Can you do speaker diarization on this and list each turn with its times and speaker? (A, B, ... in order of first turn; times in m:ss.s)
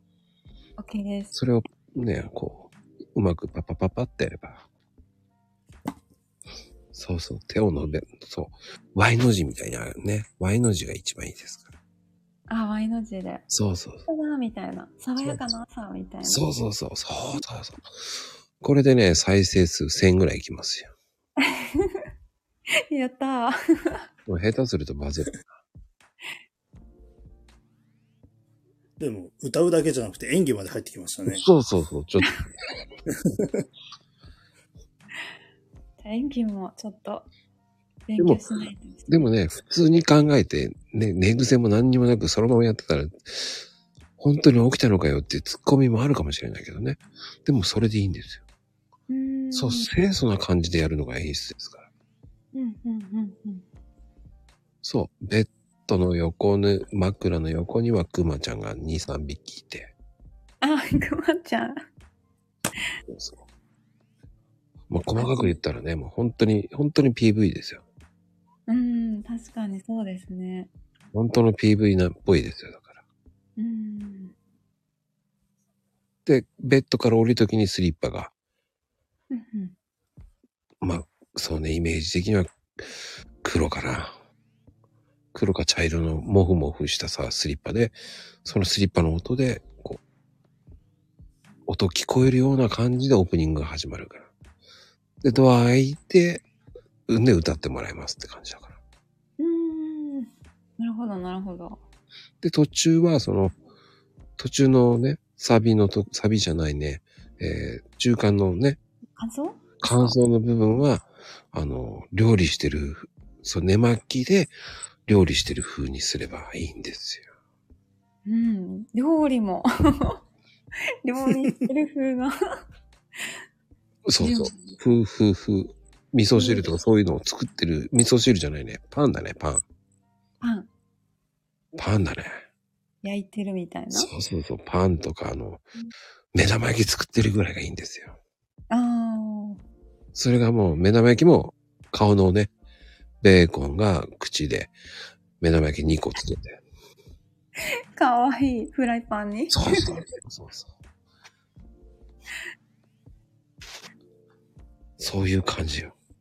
0:00.8-0:01.3 A
0:01.3-0:04.6 B
0:06.9-0:11.7 B
0:12.5-0:13.4 A
0:13.5-0:14.0 B
0:14.1-0:16.4 A
0:16.2-0:17.9 B
0:18.6-0:20.9 B
0:21.4-0:22.0 A
0:22.9-0:24.0 A
0:24.3-0:25.5 B
0:29.0-0:31.4 C
0:31.3-0:32.4 B
0:36.0-0:37.3 A
0:38.1-0:39.2 A
0:39.1-0:43.6 B
0:44.2-0:48.4 B
0:49.1-0:49.9 A
0:49.5-0:51.9 B
0:52.5-0:53.6 A
0:54.8-0:59.9 B
1:00.6-1:01.8 A
1:03.1-1:03.4 B
1:04.9-1:07.8 B
1:05.2-1:05.6 A
1:08.7-1:10.7 A
1:11.1-1:13.0 B
1:13.6-1:14.3 A
1:16.2-1:18.3 B
1:19.3-1:19.7 A
1:20.8-1:24.1 B
1:25.3-1:30.0 B
1:31.6-1:34.3 B
1:35.2-1:36.4 B
1:37.1-1:38.8 B
1:39.4-1:41.8 A
1:42.4-1:43.5 B
1:44.4-1:48.8 B
1:49.2-1:50.2 A
1:49.8-1:54.5 B
1:55.1-1:57.3 B
1:58.2-2:00.2 A
2:01.0-2:02.4 A
2:04.0-2:09.6 B
2:04.2-2:04.8 A
2:06.3-2:06.6 A
2:10.4-2:10.7 A
2:11.8-2:12.4 B
2:13.0-2:14.1 A
2:13.9-2:15.6 B
2:16.3-2:18.2 B
2:18.7-2:19.6 A
2:20.1-2:22.5 B
2:23.2-2:24.7 B
2:25.4-2:26.6 B
2:27.9-2:30.0 A
2:29.5-2:30.7 B
2:35.0-2:35.9 B